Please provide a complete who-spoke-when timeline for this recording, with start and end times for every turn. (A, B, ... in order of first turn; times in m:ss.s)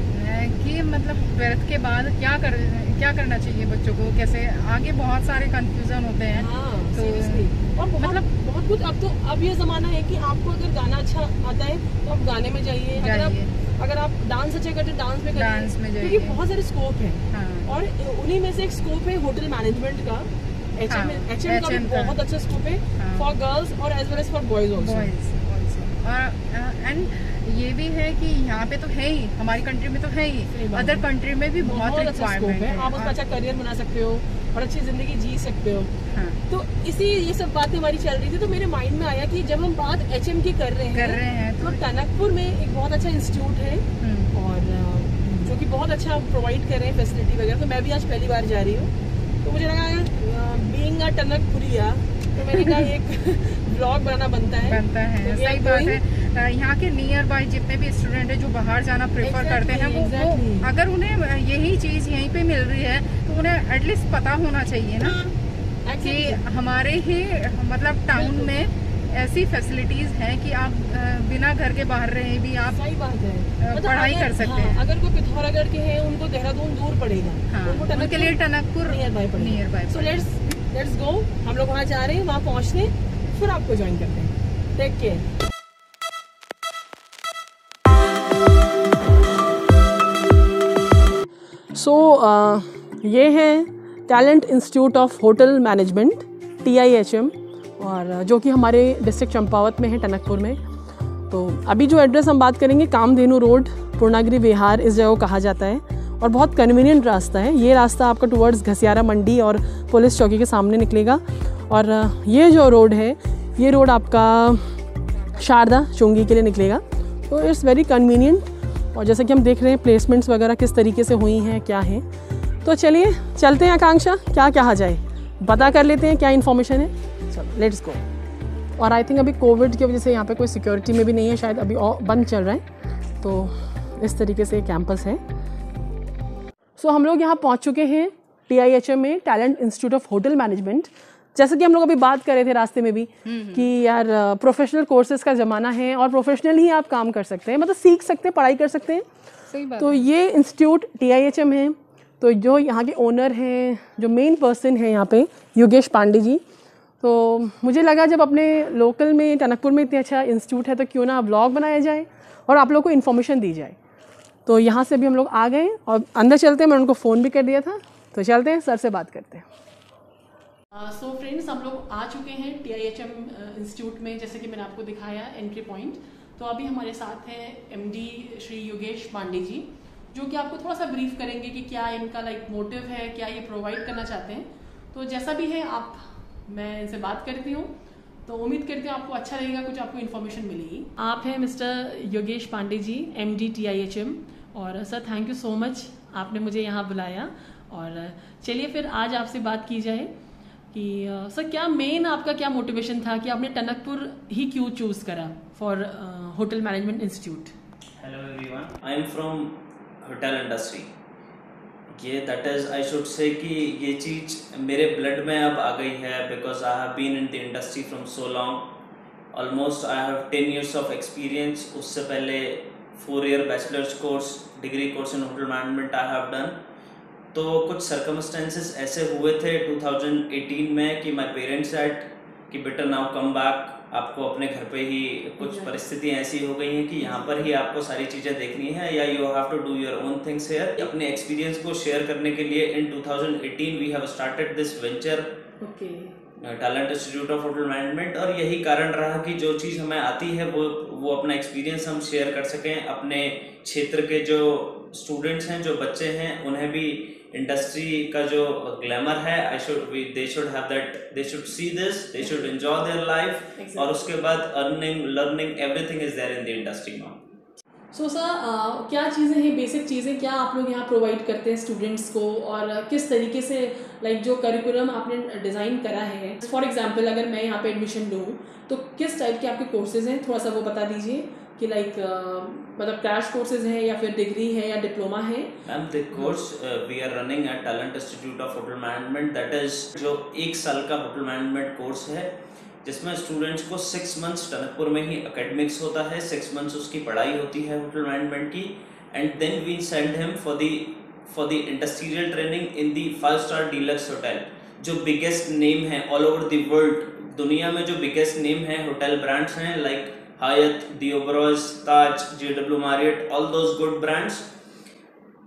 0:00.1-0:08.2 A
0:06.4-0:25.1 B
0:13.0-0:13.5 A
0:15.3-0:16.4 A
0:17.3-0:17.7 A
0:20.9-0:22.2 A
0:23.0-0:23.3 A
0:24.8-0:33.2 A
0:30.5-0:31.0 B
0:31.6-0:35.9 B
0:36.1-0:36.4 A
0:36.5-0:56.0 B
0:40.9-0:41.8 A
0:44.0-0:44.3 A
0:52.5-0:52.9 A
0:54.6-1:05.2 A
0:59.2-1:00.7 B
1:05.0-1:06.4 B
1:06.0-1:12.8 A
1:08.2-1:08.6 B
1:12.7-1:25.3 B
1:13.6-1:14.8 A
1:17.5-1:20.2 A
1:31.7-1:40.6 B
1:41.3-1:54.7 B
1:55.3-2:02.1 B
2:02.6-2:08.0 B
2:08.8-2:12.6 B
2:13.2-2:15.2 B
2:16.8-2:29.1 B
2:23.2-2:23.7 A
2:29.5-2:30.1 A
2:29.8-2:36.4 B
2:37.0-2:43.8 B
2:44.5-2:49.5 B
2:50.7-3:07.7 B
3:08.3-3:20.1 B
3:20.7-3:27.5 B
3:28.0-3:30.9 C
3:31.9-3:38.7 C
3:39.3-3:46.6 C
3:47.3-4:05.3 C
3:55.4-3:55.7 B
3:57.0-3:57.4 B
4:05.6-4:06.2 B
4:06.4-4:27.2 C
4:22.2-4:22.5 B
4:23.6-4:24.1 B
4:27.9-4:45.6 B
4:45.6-4:52.3 C
4:52.8-5:14.5 C